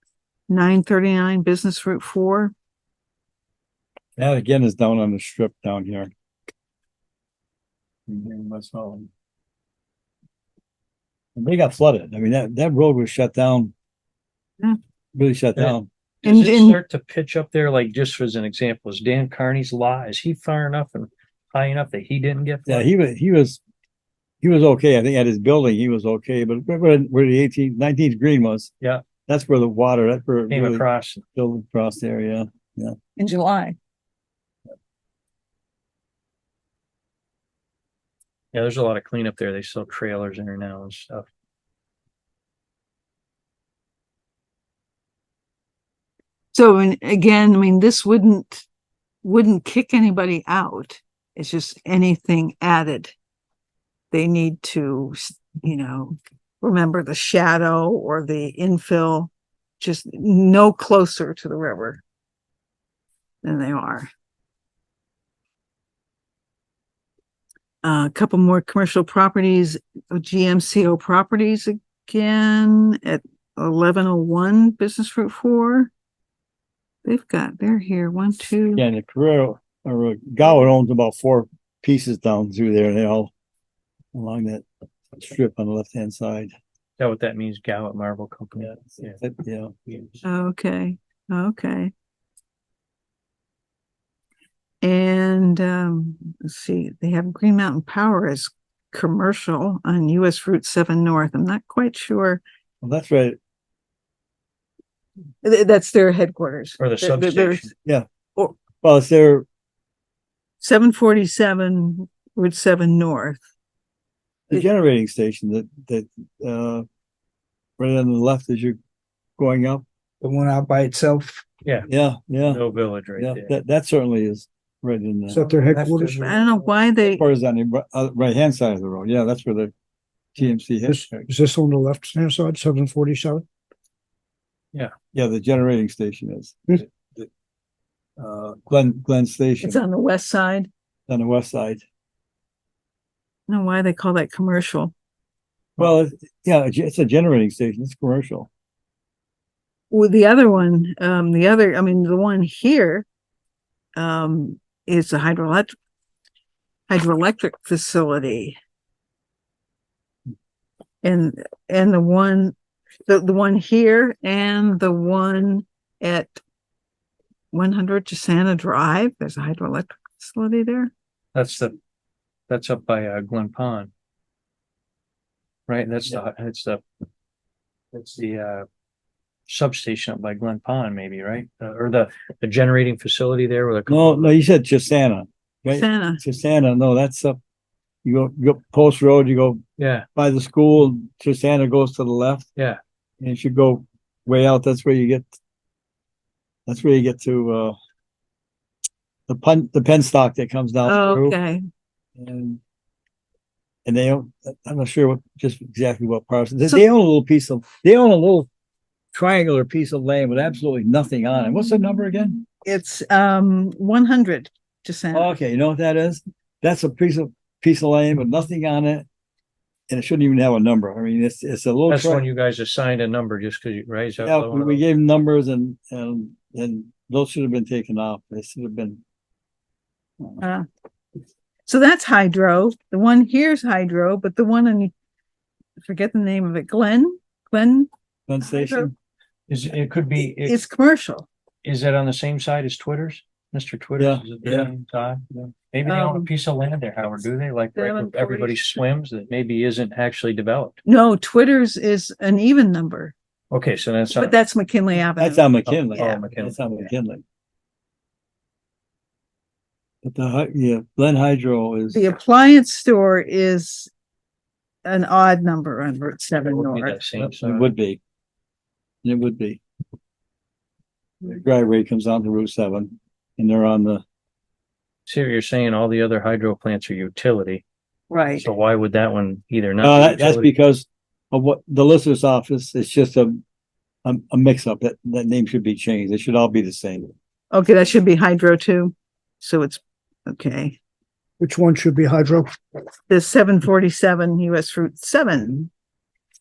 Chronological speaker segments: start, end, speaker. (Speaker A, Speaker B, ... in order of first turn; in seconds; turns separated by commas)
Speaker A: 0.5-2.5, Speaker B: 4.2-6.1, Speaker B: 8.1-9.1, Speaker B: 11.4-13.7, Speaker B: 15.2-15.9, Speaker C: 15.6-22.9, Speaker A: 16.2-16.8, Speaker B: 22.7-23.6, Speaker B: 24.4-28.7, Speaker B: 29.3-30.8, Speaker C: 30.5-31.2, Speaker B: 31.4-33.0, Speaker A: 33.2-33.8, Speaker C: 38.5-41.3, Speaker A: 46.5-48.6, Speaker A: 49.2-53.1, Speaker A: 54.1-62.0, Speaker A: 63.4-64.1, Speaker A: 67.8-75.9, Speaker A: 77.0-78.8, Speaker B: 78.8-83.3, Speaker B: 84.1-86.5, Speaker C: 87.0-89.2, Speaker B: 89.2-89.8, Speaker C: 89.9-90.2, Speaker A: 90.2-91.9, Speaker A: 94.8-102.4, Speaker B: 102.8-103.4, Speaker A: 105.4-107.7, Speaker C: 106.8-107.7, Speaker B: 108.8-109.5, Speaker A: 110.6-113.4, Speaker B: 114.5-116.8, Speaker B: 117.8-118.8, Speaker B: 119.4-119.8, Speaker D: 120.2-121.4, Speaker B: 121.9-122.6, Speaker C: 122.5-123.5, Speaker B: 123.2-125.5, Speaker D: 125.3-126.4, Speaker A: 125.9-127.2, Speaker B: 127.1-129.7, Speaker B: 130.3-131.3, Speaker D: 130.9-133.4, Speaker B: 135.1-137.3, Speaker B: 138.2-139.8, Speaker A: 139.6-140.7, Speaker B: 141.1-141.8, Speaker A: 143.5-144.9, Speaker B: 145.8-148.5, Speaker A: 149.9-153.1, Speaker A: 153.9-155.7, Speaker A: 156.9-158.6, Speaker A: 161.0-162.6, Speaker A: 163.1-166.4, Speaker A: 167.5-170.9, Speaker C: 171.3-171.8, Speaker C: 172.5-173.9, Speaker C: 175.7-176.8, Speaker C: 177.9-178.7, Speaker C: 179.5-184.3, Speaker B: 183.9-187.4, Speaker A: 185.7-186.2, Speaker B: 188.1-189.6, Speaker C: 189.8-190.1, Speaker B: 190.2-192.5, Speaker B: 193.2-195.4, Speaker B: 196.7-197.8, Speaker B: 199.3-201.4, Speaker A: 200.8-201.6, Speaker B: 202.2-202.6, Speaker B: 203.9-208.5, Speaker B: 209.1-212.4, Speaker A: 212.6-215.3, Speaker B: 215.1-219.1, Speaker B: 219.9-222.2, Speaker C: 221.9-224.8, Speaker B: 224.2-229.0, Speaker A: 230.4-230.7, Speaker A: 231.7-234.9, Speaker A: 235.8-237.9, Speaker B: 238.3-238.9, Speaker A: 238.4-238.9, Speaker C: 239.5-240.6, Speaker A: 240.3-241.3, Speaker C: 241.6-250.8, Speaker B: 244.0-244.7, Speaker A: 245.8-246.3, Speaker A: 247.8-248.6, Speaker A: 250.9-253.2, Speaker C: 253.5-254.4, Speaker A: 254.1-256.2, Speaker B: 255.2-257.2, Speaker C: 255.7-256.8, Speaker B: 260.0-262.0, Speaker A: 261.9-263.9, Speaker A: 264.9-267.0, Speaker C: 266.5-267.7, Speaker B: 267.2-268.0, Speaker B: 269.0-269.6, Speaker B: 271.2-274.0, Speaker C: 275.1-277.6, Speaker A: 278.1-278.5, Speaker C: 278.4-280.5, Speaker B: 279.8-283.4, Speaker B: 284.1-287.1, Speaker A: 287.5-290.8, Speaker D: 291.4-292.5, Speaker A: 293.1-295.7